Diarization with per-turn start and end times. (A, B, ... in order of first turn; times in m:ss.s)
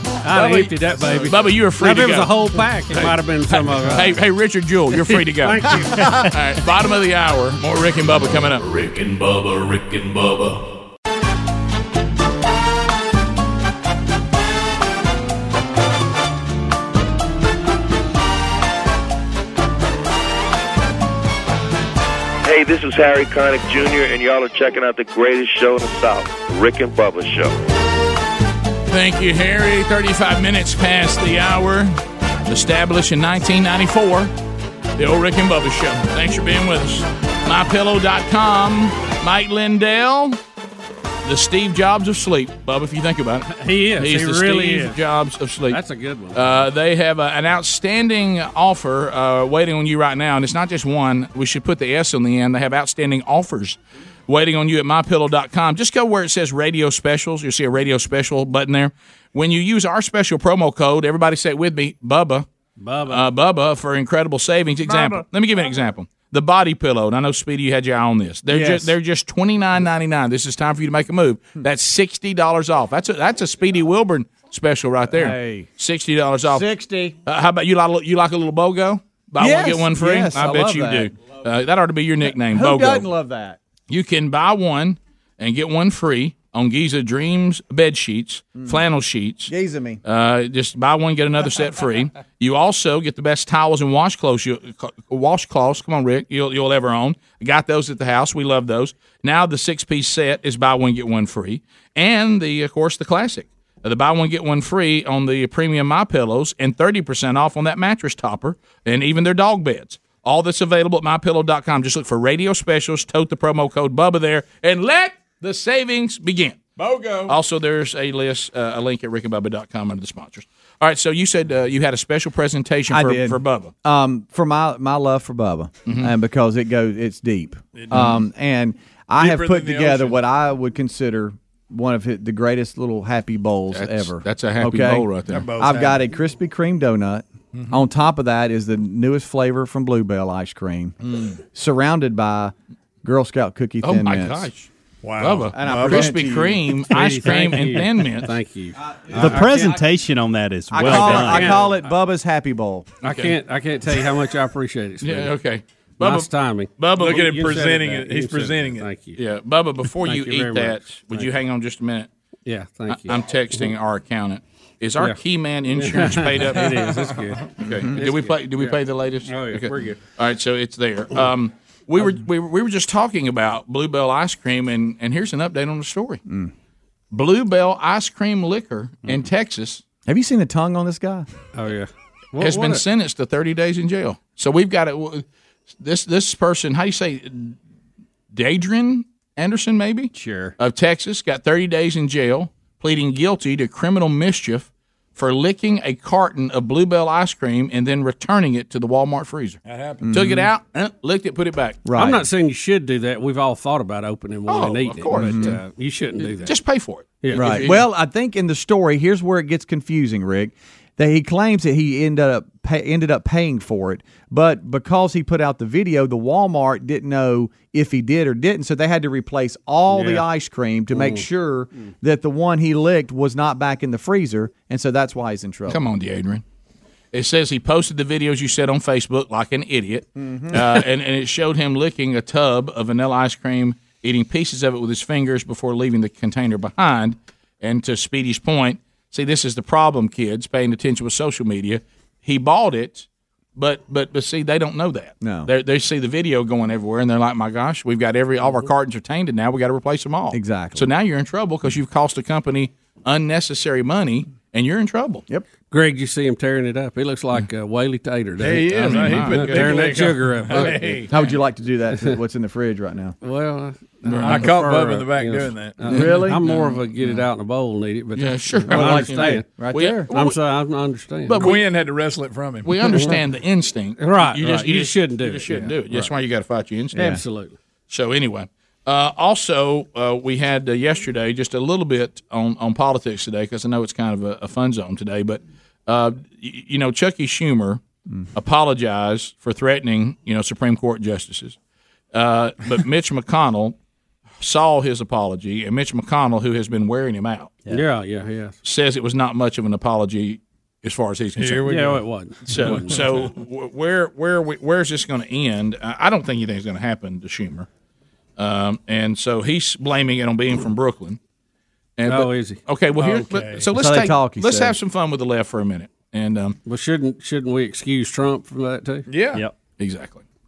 0:00.2-0:04.2 A
0:00.3-0:01.3 B
0:01.2-0:02.4 C
0:03.7-0:08.6 C
0:04.9-0:06.3 A
0:08.6-0:10.7 D
0:22.4-0:27.5 E
0:28.9-0:31.9 C
0:32.5-0:34.3 C
0:35.0-0:40.4 C
0:41.2-0:45.8 C
0:43.5-0:45.0 A
0:45.7-0:46.6 A
0:46.3-1:02.5 C
1:02.8-1:03.2 A
1:03.0-1:16.7 C
1:08.5-1:08.9 F
1:15.1-1:15.7 F
1:16.5-1:17.1 F
1:17.2-1:23.1 C
1:19.4-1:21.1 F
1:22.4-1:23.6 F
1:23.9-1:29.5 C
1:28.6-1:28.8 F
1:29.5-1:30.0 F
1:30.0-1:56.6 C
1:56.8-1:57.4 B
1:57.2-2:03.7 C
2:02.9-2:24.5 F
2:05.8-2:06.1 C
2:07.7-2:08.2 B
2:09.2-2:10.2 B
2:13.7-2:15.5 C
2:15.3-2:16.1 B
2:17.5-2:17.8 B
2:21.1-2:21.3 B
2:23.8-2:28.3 C
2:25.0-2:26.2 B
2:25.5-2:26.6 F
2:26.9-2:29.8 A
2:29.1-2:29.7 F
2:29.1-2:31.6 G
2:30.7-2:32.9 F
2:30.8-2:31.7 A
2:33.0-2:33.3 C
2:33.0-2:35.3 A
2:35.0-2:37.3 C
2:36.0-2:39.2 A
2:36.9-2:38.9 B
2:39.2-2:42.1 C
2:40.0-2:41.3 A
2:42.4-2:43.7 A
2:42.9-2:46.8 C
2:45.7-2:50.0 A
2:46.7-2:47.1 B
2:47.6-2:56.2 C
2:56.3-2:56.5 F
2:57.1-2:59.8 C
3:00.0-3:01.2 F
3:01.5-3:02.8 A
3:02.4-3:05.2 C
3:05.8-3:07.6 C
3:08.3-3:19.6 C
3:10.1-3:10.5 G
3:19.6-3:20.3 B
3:20.0-3:20.5 F
3:20.1-3:21.8 C
3:21.8-3:22.2 F
3:21.9-3:26.6 A
3:24.5-3:25.6 C
3:25.1-3:25.6 F
3:26.3-3:27.9 C
3:27.2-3:27.7 A
3:27.3-3:45.8 F
3:39.9-3:40.2 A
3:40.9-3:41.2 A
3:45.7-3:46.4 C
3:47.1-4:15.2 C
3:50.2-3:50.6 F
4:05.2-4:05.5 F
4:10.3-4:10.9 F
4:15.7-4:21.1 A
4:18.4-4:21.1 B
4:18.7-4:20.0 C
4:20.5-4:20.8 C
4:21.1-4:23.2 F
4:23.2-4:31.5 A
4:24.0-4:25.9 B
4:24.1-4:24.5 C
4:25.9-4:26.4 F
4:28.1-4:30.4 C
4:28.7-4:30.1 F
4:31.3-4:31.6 C
4:31.4-4:32.9 B
4:32.6-4:37.0 C
4:32.9-4:33.2 A
4:34.0-4:36.0 A
4:36.9-4:37.2 F
4:36.9-4:37.6 A
4:37.9-4:47.8 C
4:48.3-4:51.6 C
4:52.1-4:53.8 C
4:54.4-4:57.6 C
4:57.7-4:58.6 A
4:58.6-5:01.6 C
5:01.4-5:03.2 B
5:01.6-5:03.0 A
5:02.5-5:07.7 C
5:08.4-5:11.2 C
5:12.0-5:16.6 C
5:12.0-5:12.6 A
5:13.0-5:13.7 B
5:13.7-5:14.8 F
5:16.7-5:19.0 A
5:19.1-5:19.4 B
5:19.8-5:20.2 C